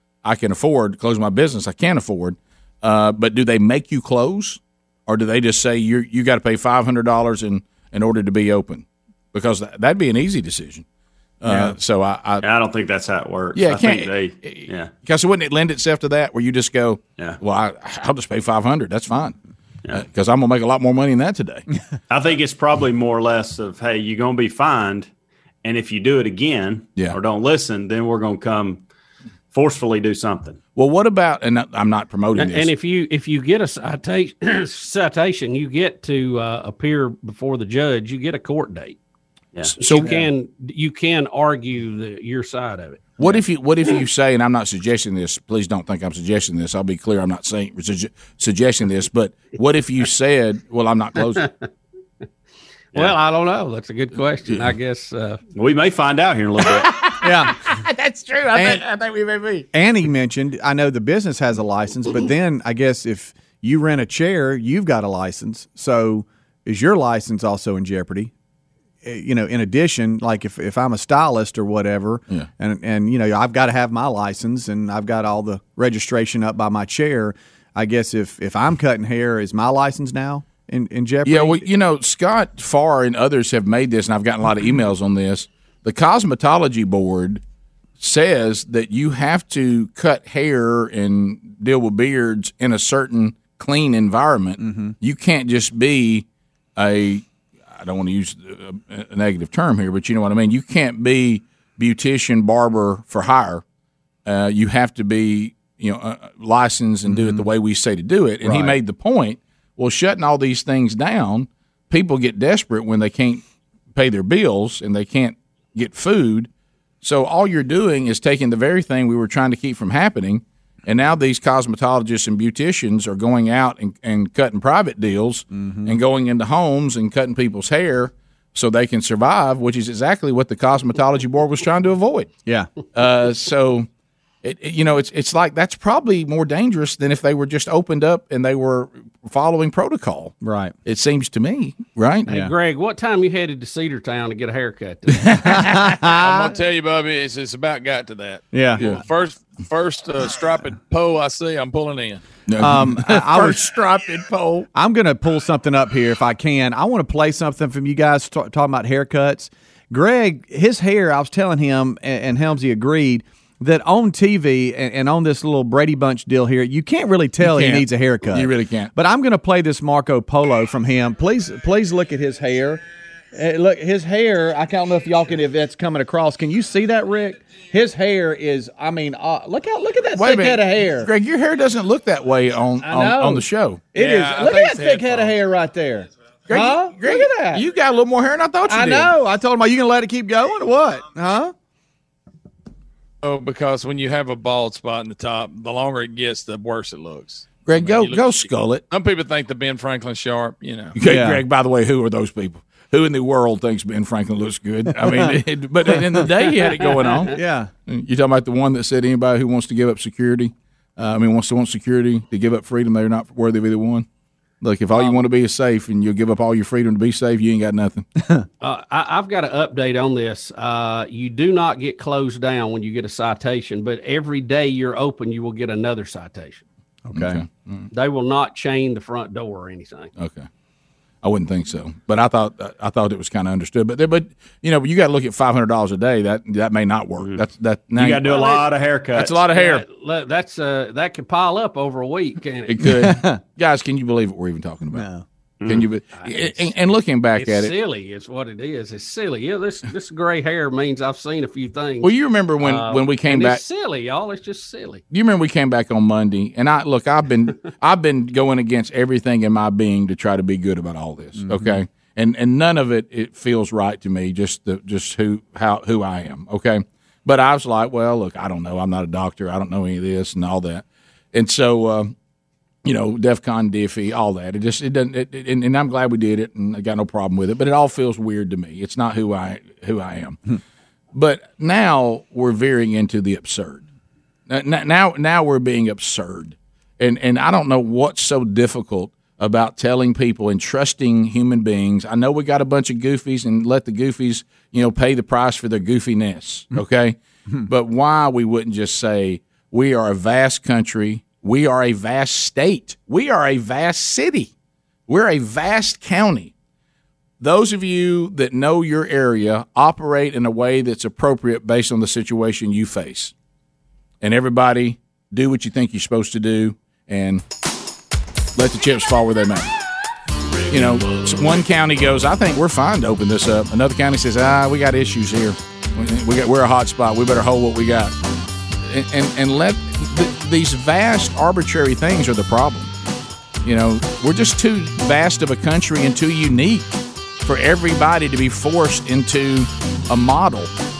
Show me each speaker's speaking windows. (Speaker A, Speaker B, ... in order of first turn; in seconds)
Speaker A: 0.2-10.8, 11.4-12.4, 13.5-19.4, 19.9-21.6, 30.8-32.7, 39.7-40.1, 43.2-51.4, 56.8-59.7, 81.2-87.4, 88.0-103.6, 104.2-116.5, 117.0-132.3, 132.9-133.9, 134.4-142.3, 145.2-145.9, 152.5-154.7, 167.4-168.9, 180.1-183.8, 186.5-189.1, 197.7-198.8, 200.9-214.1, 214.6-218.1, 227.1-227.9, 230.2-230.5, 231.2-238.4, 239.2-239.8, 242.7-245.1, 245.6-247.7, 252.0-253.6, 255.1-272.1, 272.8-280.4, 281.1-283.8, 284.5-304.5, 305.1-306.5, 307.4-313.3, 314.2-317.4, 318.6-319.7, 320.7-328.1, 328.8-332.9, 333.6-340.7
Speaker B: 12.4-14.9, 22.1-25.1, 25.6-28.8, 29.5-30.6, 39.5-40.3, 55.5-56.9, 237.2-237.4, 237.9-239.4, 245.6-245.9
Speaker C: 32.4-39.0, 39.8-43.3, 52.9-55.4, 142.3-145.3, 218.6-226.6, 227.9-230.1, 238.3-238.7, 239.5-242.9, 246.2-246.7, 247.3-255.0
Speaker D: 57.2-57.5, 58.2-58.8, 59.7-68.3, 69.0-81.6, 94.6-94.9, 107.1-107.4, 108.4-108.8, 125.5-126.0, 132.4-132.7, 140.4-140.7, 145.5-146.3, 148.5-149.0, 152.6-153.6, 154.7-172.8, 173.3-181.1, 182.8-187.6, 188.7-191.5, 201.0-201.4, 204.9-205.3, 205.9-206.3, 207.3-207.7, 227.0-227.4, 242.9-243.4, 244.9-245.2, 261.4-261.8
Speaker E: 146.2-152.4, 183.9-185.3, 193.2-200.9